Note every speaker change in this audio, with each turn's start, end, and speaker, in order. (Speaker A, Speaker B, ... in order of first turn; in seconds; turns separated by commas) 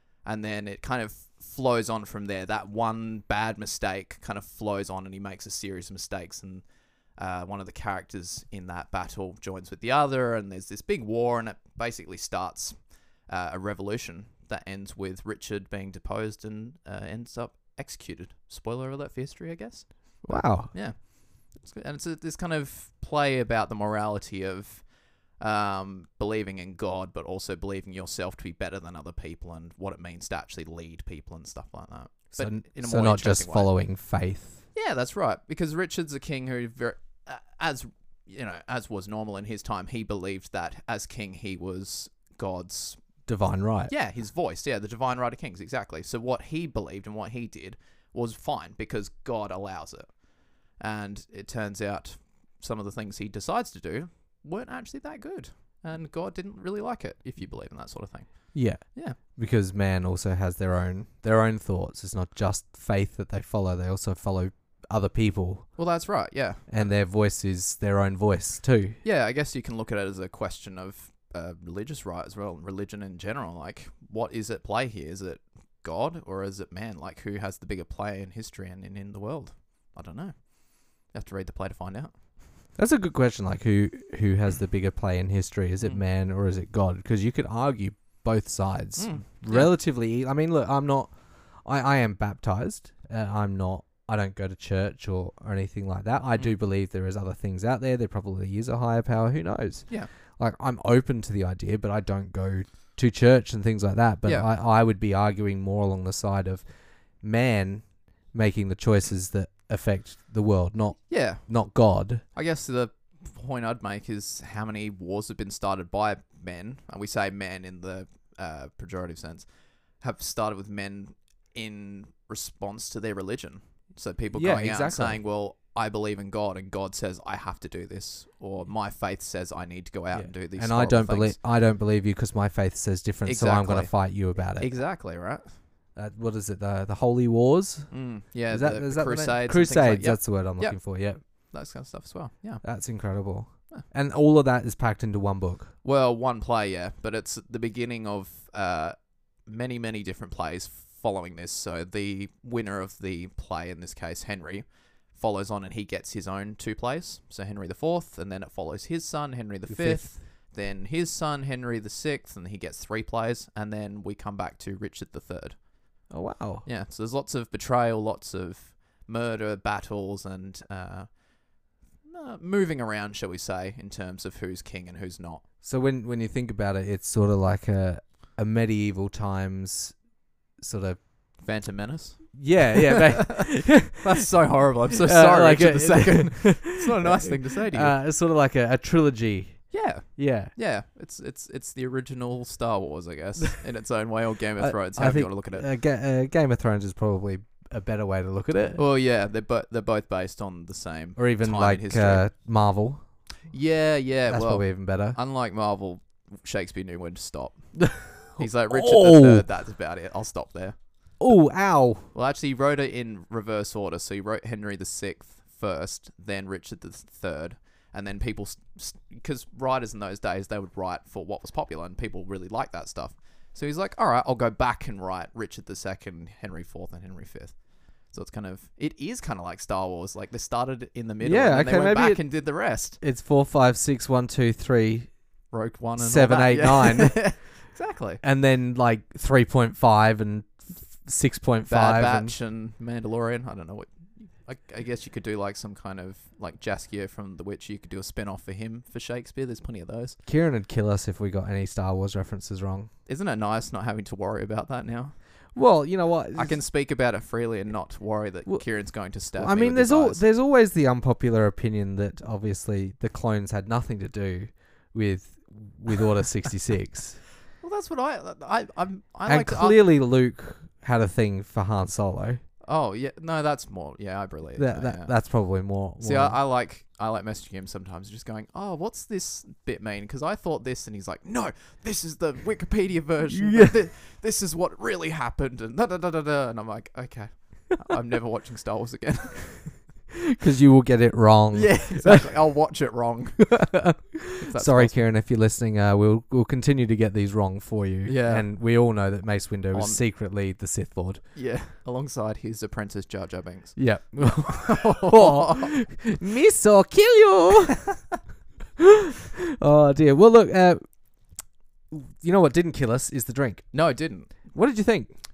Speaker A: 0.2-33.7, Speaker B: 20.2-20.7, Speaker B: 32.3-34.6, Speaker A: 34.7-43.0, Speaker B: 43.3-43.9, Speaker A: 43.9-59.2, Speaker B: 58.5-65.8, Speaker A: 65.8-66.9, Speaker B: 66.7-69.0, Speaker A: 69.0-82.1, Speaker B: 82.8-91.1, Speaker A: 89.0-89.7, Speaker B: 91.7-106.7, Speaker B: 107.2-112.2, Speaker A: 111.1-111.5, Speaker A: 112.3-119.5, Speaker A: 120.0-131.4, Speaker B: 124.3-125.2, Speaker B: 130.1-134.7, Speaker A: 133.2-134.0, Speaker A: 134.6-135.5, Speaker B: 135.9-137.9, Speaker A: 137.9-140.8, Speaker B: 138.5-141.2, Speaker A: 141.5-142.6, Speaker B: 142.6-145.7, Speaker A: 145.8-165.6, Speaker B: 159.7-160.1, Speaker B: 166.1-166.7, Speaker A: 166.7-171.2, Speaker A: 172.0-175.4, Speaker B: 175.6-180.0, Speaker B: 180.6-181.0, Speaker A: 181.4-187.9, Speaker B: 182.3-184.3, Speaker B: 184.9-190.5, Speaker A: 189.7-195.7, Speaker B: 194.6-198.8, Speaker A: 198.8-202.2, Speaker B: 201.2-203.0, Speaker A: 203.5-210.8, Speaker B: 204.3-205.2, Speaker B: 207.9-209.5, Speaker B: 211.2-212.1, Speaker A: 212.1-233.0, Speaker B: 231.2-232.3, Speaker B: 233.0-235.1, Speaker A: 235.5-238.2, Speaker B: 236.0-237.3, Speaker B: 238.2-242.3, Speaker A: 241.7-250.2, Speaker B: 250.2-252.9, Speaker A: 253.1-255.2, Speaker B: 255.6-256.6, Speaker A: 256.4-260.2, Speaker B: 258.5-267.2, Speaker A: 267.6-269.9, Speaker B: 269.3-272.4, Speaker A: 272.6-275.1, Speaker B: 274.6-276.4, Speaker A: 276.0-289.8, Speaker B: 283.3-283.8, Speaker B: 290.3-292.3, Speaker A: 291.5-293.7, Speaker B: 293.4-301.2, Speaker A: 294.3-295.0, Speaker A: 298.1-298.5, Speaker A: 299.7-300.0, Speaker A: 301.3-305.7, Speaker B: 303.8-307.8, Speaker B: 308.8-310.8, Speaker B: 311.9-313.7, Speaker A: 313.7-314.4, Speaker B: 314.5-315.1